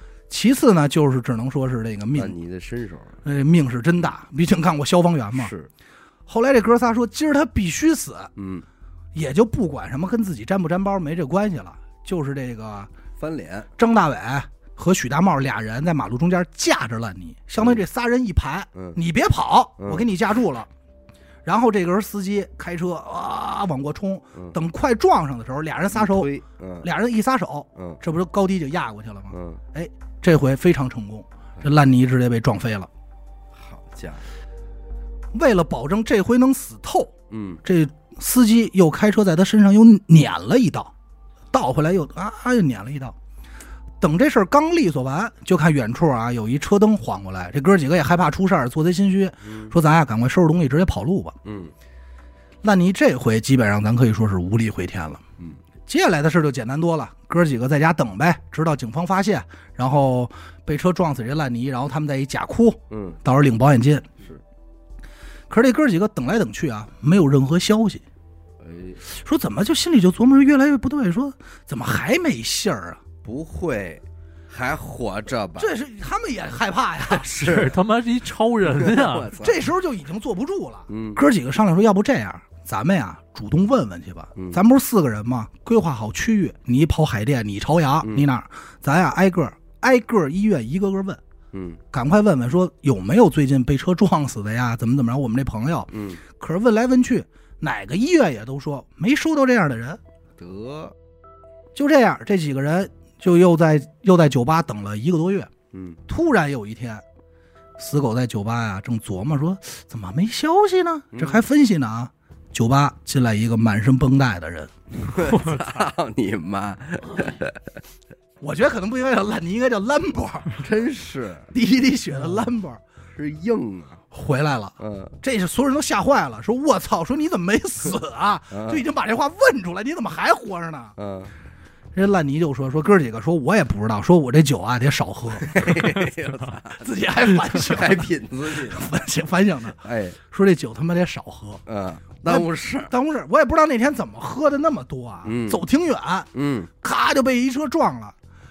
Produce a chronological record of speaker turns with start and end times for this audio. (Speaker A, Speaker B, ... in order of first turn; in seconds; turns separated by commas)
Speaker A: 0.3-2.4, Speaker B: 2.1-3.2, Speaker A: 3.2-5.5, Speaker B: 5.3-5.7, Speaker A: 6.3-8.3, Speaker B: 8.4-8.7, Speaker A: 9.1-12.9, Speaker B: 13.2-13.7, Speaker A: 13.8-20.7, Speaker B: 19.8-20.1, Speaker A: 21.4-26.3, Speaker B: 25.9-26.9, Speaker A: 26.8-32.9, Speaker B: 27.8-28.0, Speaker B: 29.3-29.6, Speaker B: 33.5-34.2, Speaker A: 35.3-37.1, Speaker B: 37.3-37.6, Speaker A: 37.6-40.9, Speaker A: 41.5-43.1, Speaker A: 44.0-51.4, Speaker B: 49.4-49.7, Speaker B: 51.4-51.7, Speaker A: 52.6-55.2, Speaker A: 55.9-64.1, Speaker B: 62.9-63.2, Speaker A: 65.5-68.0, Speaker B: 68.6-69.0, Speaker A: 69.0-73.0, Speaker B: 73.2-75.7, Speaker A: 75.6-77.3, Speaker B: 77.0-77.8, Speaker C: 77.4-79.3, Speaker B: 78.6-79.6, Speaker A: 79.4-91.2, Speaker B: 80.9-81.2, Speaker B: 91.5-91.8, Speaker A: 91.9-100.0, Speaker B: 95.9-96.2, Speaker B: 100.4-101.0, Speaker A: 101.7-105.5, Speaker B: 105.7-106.0, Speaker A: 106.1-107.0, Speaker A: 107.8-114.7, Speaker B: 111.1-111.4, Speaker B: 115.0-117.6, Speaker C: 115.3-115.7, Speaker A: 118.4-120.6, Speaker B: 120.6-121.5, Speaker A: 121.5-122.8, Speaker B: 123.1-124.0, Speaker A: 124.1-130.9, Speaker B: 124.8-125.1, Speaker B: 128.5-128.8, Speaker B: 131.0-131.3, Speaker A: 132.0-135.8, Speaker B: 135.3-136.8, Speaker A: 136.7-141.6, Speaker B: 137.4-138.9, Speaker B: 139.8-140.2, Speaker B: 141.7-142.9, Speaker A: 142.3-146.3, Speaker B: 145.2-145.6, Speaker B: 146.3-146.7, Speaker A: 146.8-148.1